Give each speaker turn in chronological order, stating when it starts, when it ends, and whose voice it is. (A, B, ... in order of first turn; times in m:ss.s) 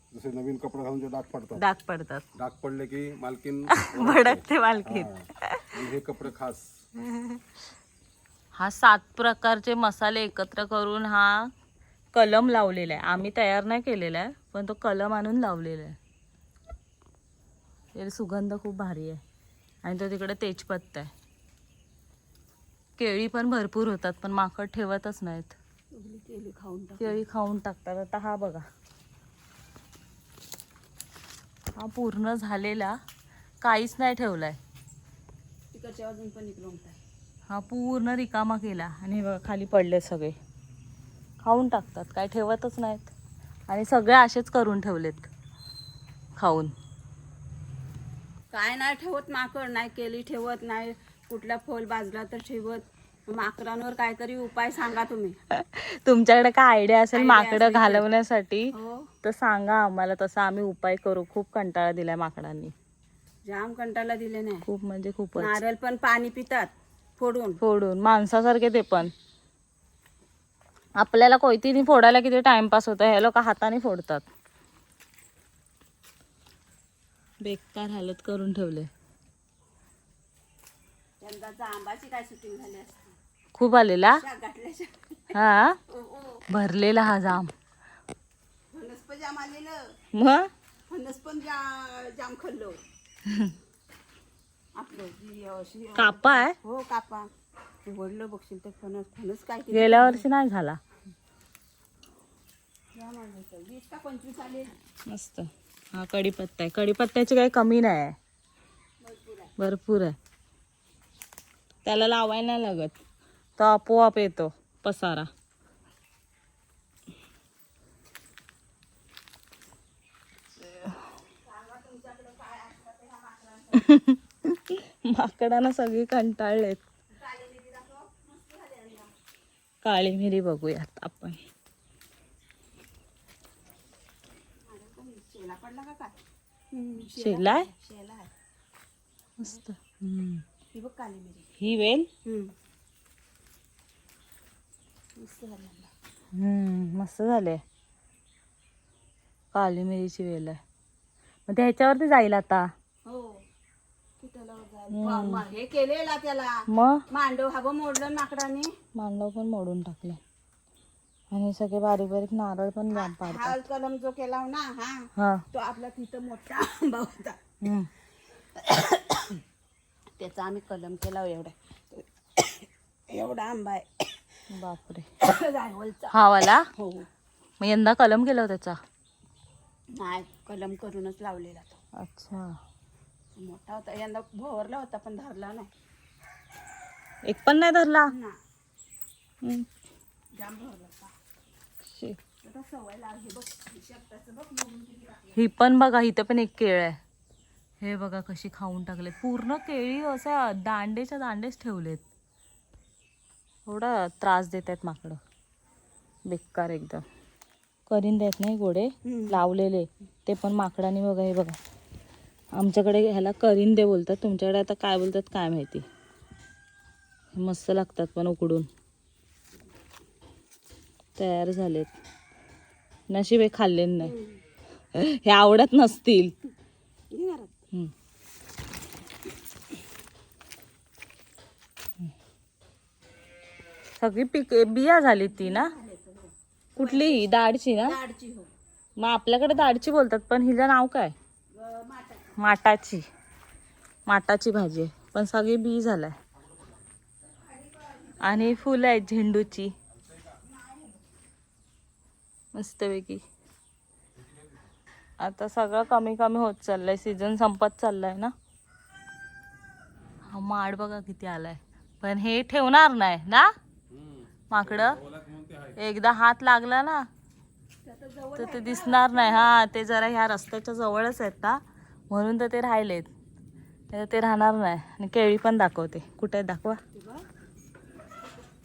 0:00.1-0:01.6 A
0:01.5-0:02.2 B
0:02.3-0:06.7 A
0:03.7-0:05.7 B
0:07.0-0:07.4 B
0:08.5-0:11.5 B
0:12.1-0:16.0 B
0:17.9-0:19.2 B
0:19.8-0:21.1 B
0:23.0-0:25.6 B
0:25.9-0:27.2 C
0:27.0-0:28.6 B
0:31.7-0:33.0 B
0:33.6-0:34.6 B
0:35.7-0:37.0 C
0:37.5-0:40.4 B
0:41.4-0:43.1 B
0:43.7-0:45.3 B
0:46.4-0:46.7 B
0:48.5-0:55.4 C
0:55.5-0:58.7 B
0:57.1-0:58.0 C
0:58.7-0:59.1 C
0:59.2-1:02.7 B
1:03.4-1:04.6 C
1:04.6-1:05.6 B
1:05.4-1:07.6 C
1:07.6-1:09.1 B
1:11.0-1:14.2 B
1:17.4-1:18.9 B
1:21.2-1:23.2 C
1:23.5-1:24.2 B
1:24.2-1:25.4 C
1:25.3-1:25.8 B
1:25.9-1:26.4 C
1:26.5-1:27.5 B
1:28.7-1:29.9 C
1:30.1-1:30.5 B
1:30.9-1:32.8 C
1:33.3-1:33.5 B
1:34.8-1:37.3 C
1:36.0-1:36.6 B
1:37.8-1:40.2 C
1:39.7-1:40.8 B
1:42.9-1:44.7 C
1:45.1-1:48.2 B
1:49.0-1:49.5 C
1:49.6-1:50.2 B
1:51.8-1:53.0 B
1:53.6-1:55.3 B
2:01.4-2:03.9 C
2:03.7-2:06.8 B
2:07.1-2:09.1 C
2:09.8-2:11.4 B
2:14.7-2:16.2 C
2:16.7-2:18.3 C
2:17.2-2:17.7 B
2:19.4-2:20.4 B
2:20.7-2:21.6 C
2:21.6-2:22.1 B
2:22.2-2:22.5 C
2:25.2-2:25.9 C
2:26.3-2:27.6 B
2:29.5-2:30.6 B
2:31.5-2:32.7 B
2:33.0-2:33.4 C
2:34.2-2:36.5 C
2:34.9-2:35.4 B
2:36.7-2:37.0 B
2:37.1-2:38.7 C
2:38.9-2:40.2 B
2:41.3-2:43.6 B
2:42.9-2:47.4 C
2:45.2-2:45.4 B
2:47.6-2:47.9 B
2:48.6-2:49.4 C
2:50.2-2:54.1 C
2:54.5-2:55.1 B
2:55.2-2:56.1 C
2:56.1-2:56.7 B
2:56.7-2:57.1 C
2:57.6-2:58.8 B
2:59.9-3:01.8 C
3:02.0-3:02.6 B
3:03.4-3:05.7 C
3:07.2-3:08.1 B
3:08.1-3:08.4 C
3:09.4-3:09.7 B
3:10.4-3:11.1 C
3:11.8-3:12.2 B
3:12.4-3:15.4 C
3:15.3-3:17.0 B
3:17.8-3:22.0 B
3:23.6-3:25.2 B
3:26.2-3:27.0 B
3:27.9-3:31.6 B
3:29.0-3:29.4 C
3:32.5-3:35.8 B
3:37.3-3:38.7 B
3:41.2-3:41.9 B
3:43.1-3:44.1 B
3:44.0-3:44.4 C
3:44.9-3:46.3 B
3:47.1-3:47.6 C
3:54.0-3:55.7 B
3:55.3-3:58.5 C
3:56.8-3:58.0 B
3:59.0-4:01.1 B
4:01.5-4:02.4 C
4:02.4-4:03.0 B
4:04.1-4:06.2 B
4:07.5-4:08.5 C
4:08.2-4:09.7 B
4:10.4-4:11.0 C
4:12.5-4:13.2 B
4:15.2-4:18.3 B
4:20.2-4:23.5 B
4:23.9-4:25.8 A
4:24.5-4:25.0 B
4:25.8-4:27.1 B
4:27.8-4:29.5 C
4:28.4-4:33.1 B
4:33.9-4:36.8 B
4:36.9-4:37.2 C